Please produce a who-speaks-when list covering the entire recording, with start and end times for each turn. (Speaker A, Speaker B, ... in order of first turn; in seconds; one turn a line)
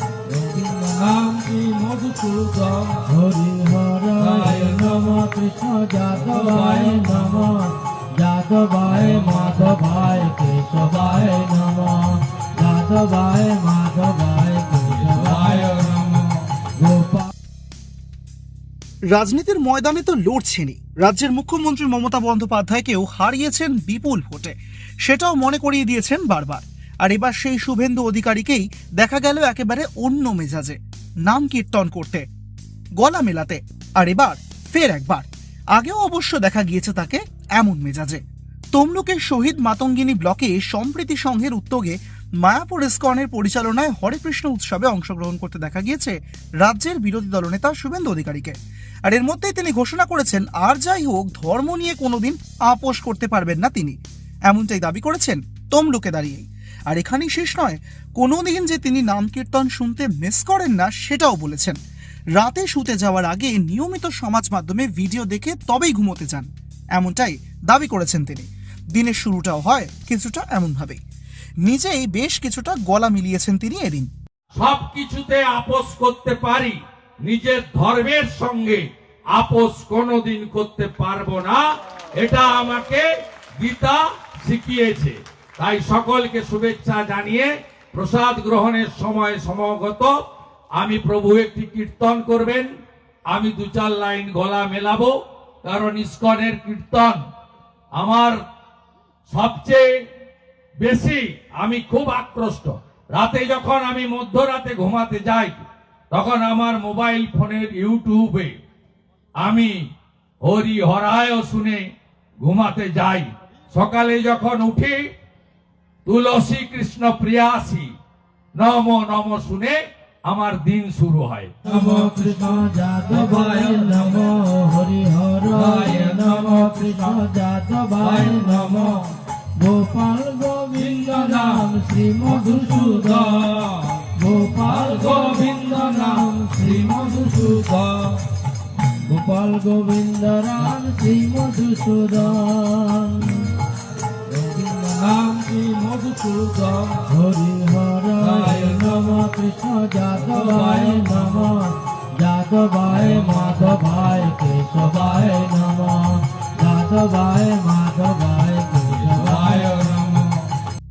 Speaker A: 0.3-3.0
Speaker B: 3.0-15.8
Speaker A: 4.2-5.2
Speaker A: 6.2-7.5
Speaker A: 8.8-9.8
Speaker A: 14.9-16.4
Speaker B: 16.8-17.3
Speaker C: 19.1-32.2
Speaker C: 33.0-38.2
Speaker C: 38.7-48.5
Speaker C: 49.1-61.8
Speaker C: 62.4-71.0
Speaker C: 71.6-74.1
Speaker A: 74.5-90.2
Speaker A: 90.8-92.7
Speaker A: 93.3-97.2
Speaker A: 98.0-98.4
Speaker A: 99.3-100.0
Speaker A: 100.8-108.5
Speaker A: 109.4-109.8
Speaker A: 110.4-111.9
Speaker A: 112.4-115.1
Speaker A: 116.0-117.9
Speaker A: 118.5-124.3
Speaker B: 121.6-128.9
Speaker A: 125.5-127.2
Speaker A: 128.0-129.1
Speaker B: 129.6-133.5
Speaker A: 130.7-131.7
Speaker A: 132.3-134.1
Speaker B: 134.1-137.5
Speaker A: 134.6-138.2
Speaker B: 139.1-143.5
Speaker A: 144.3-147.1
Speaker B: 147.1-159.8
Speaker A: 148.2-149.2
Speaker A: 150.2-151.5
Speaker A: 152.9-153.7
Speaker A: 158.9-160.4